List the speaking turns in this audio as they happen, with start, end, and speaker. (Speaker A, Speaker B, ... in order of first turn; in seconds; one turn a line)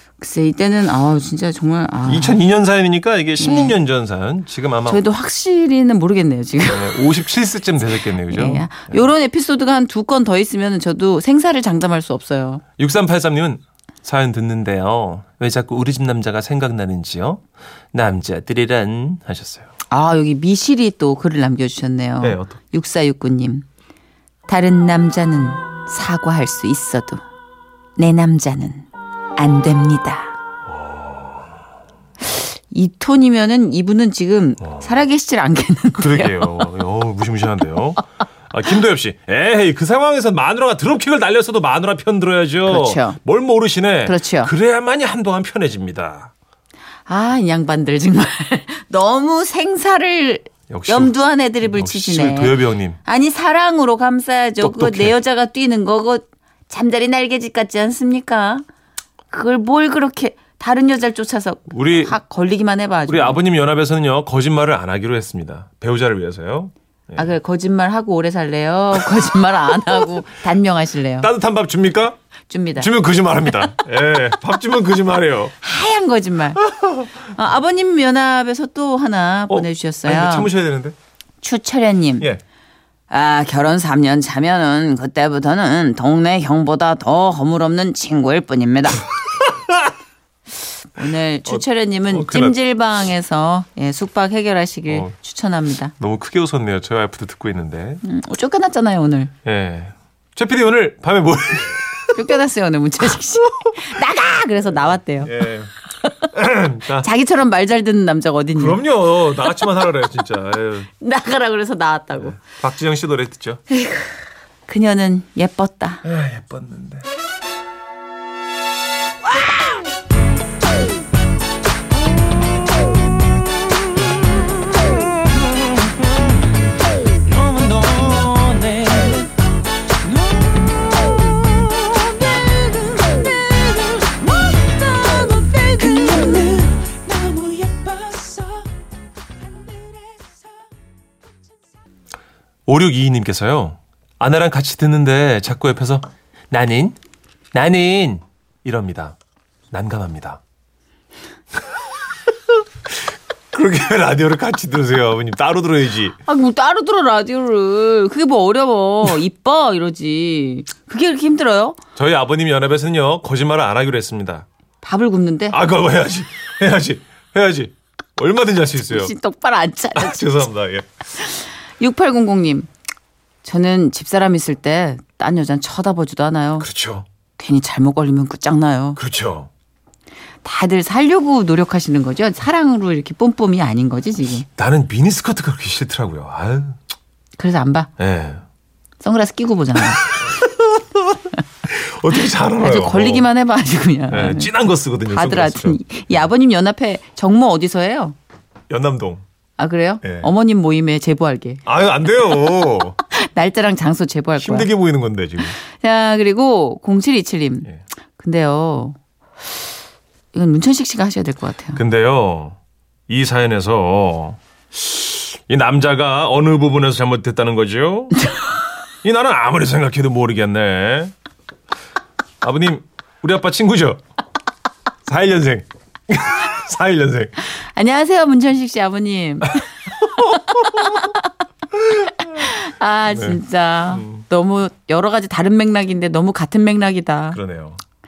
Speaker A: 0.2-2.4
Speaker B: 2.0-5.0
Speaker A: 3.4-3.8
Speaker A: 4.9-7.1
Speaker B: 6.6-9.1
Speaker A: 8.2-12.6
Speaker B: 12.8-19.7
Speaker A: 19.9-23.7
Speaker B: 22.2-22.6
Speaker A: 24.5-27.2
Speaker A: 28.0-30.4
Speaker B: 30.7-31.5
Speaker A: 32.3-36.7
Speaker B: 36.0-46.3
Speaker A: 42.6-43.2
Speaker A: 44.0-44.5
Speaker A: 47.1-58.6
Speaker B: 50.7-53.0
Speaker B: 54.6-55.2
Speaker A: 59.3-63.4
Speaker B: 61.7-62.1
Speaker B: 63.1-67.3
Speaker A: 67.2-71.3
Speaker B: 71.2-72.2
Speaker A: 72.5-72.9
Speaker B: 72.8-75.5
Speaker A: 75.6-80.5
Speaker B: 76.6-77.1
Speaker B: 79.5-81.0
Speaker A: 81.4-82.3
Speaker A: 83.1-89.1
Speaker B: 89.4-89.9
Speaker A: 91.0-95.9
Speaker B: 91.5-92.6
Speaker B: 94.9-95.2
Speaker B: 96.0-98.0
Speaker A: 98.0-99.3
Speaker B: 99.5-102.4
Speaker A: 102.2-105.3
Speaker B: 103.5-103.9
Speaker B: 104.8-105.7
Speaker B: 106.3-107.1
Speaker A: 107.0-109.7
Speaker B: 108.5-110.9
Speaker A: 111.0-112.4
Speaker B: 112.2-113.6
Speaker A: 113.7-116.0
Speaker B: 116.0-117.1
Speaker B: 127.4-129.2
Speaker A: 135.6-136.9
Speaker B: 135.9-136.7
Speaker B: 137.3-138.2
Speaker B: 142.7-147.0
Speaker B: 147.5-149.2
Speaker B: 149.7-150.4
Speaker B: 151.7-152.6
Speaker B: 153.5-156.2
Speaker A: 156.3-161.8
Speaker B: 162.0-164.5
Speaker A: 164.8-165.6
Speaker B: 165.5-169.1
Speaker A: 168.8-170.4
Speaker B: 170.0-170.9
Speaker A: 171.2-172.7
Speaker A: 173.4-176.7
Speaker B: 176.6-177.1
Speaker A: 177.4-179.0
Speaker B: 179.0-179.5
Speaker A: 180.4-184.5
Speaker B: 184.6-186.8
Speaker A: 187.4-187.9
Speaker B: 188.0-188.4
Speaker A: 189.0-190.2
Speaker B: 189.8-193.3
Speaker A: 192.4-194.5
Speaker B: 194.1-196.3
Speaker A: 195.1-198.2
Speaker B: 198.7-199.2
Speaker A: 199.6-201.6
Speaker B: 200.0-200.3
Speaker B: 201.7-203.0
Speaker A: 202.5-204.7
Speaker B: 204.4-205.6
Speaker A: 205.6-209.0
Speaker A: 210.3-211.8
Speaker B: 211.8-212.6
Speaker B: 213.1-218.3
Speaker B: 219.0-221.1
Speaker B: 222.4-224.0
Speaker B: 225.1-227.3
Speaker A: 227.4-231.3
Speaker B: 229.6-231.2
Speaker B: 231.9-232.5
Speaker A: 231.9-237.4
Speaker B: 233.1-234.2
Speaker B: 237.3-237.8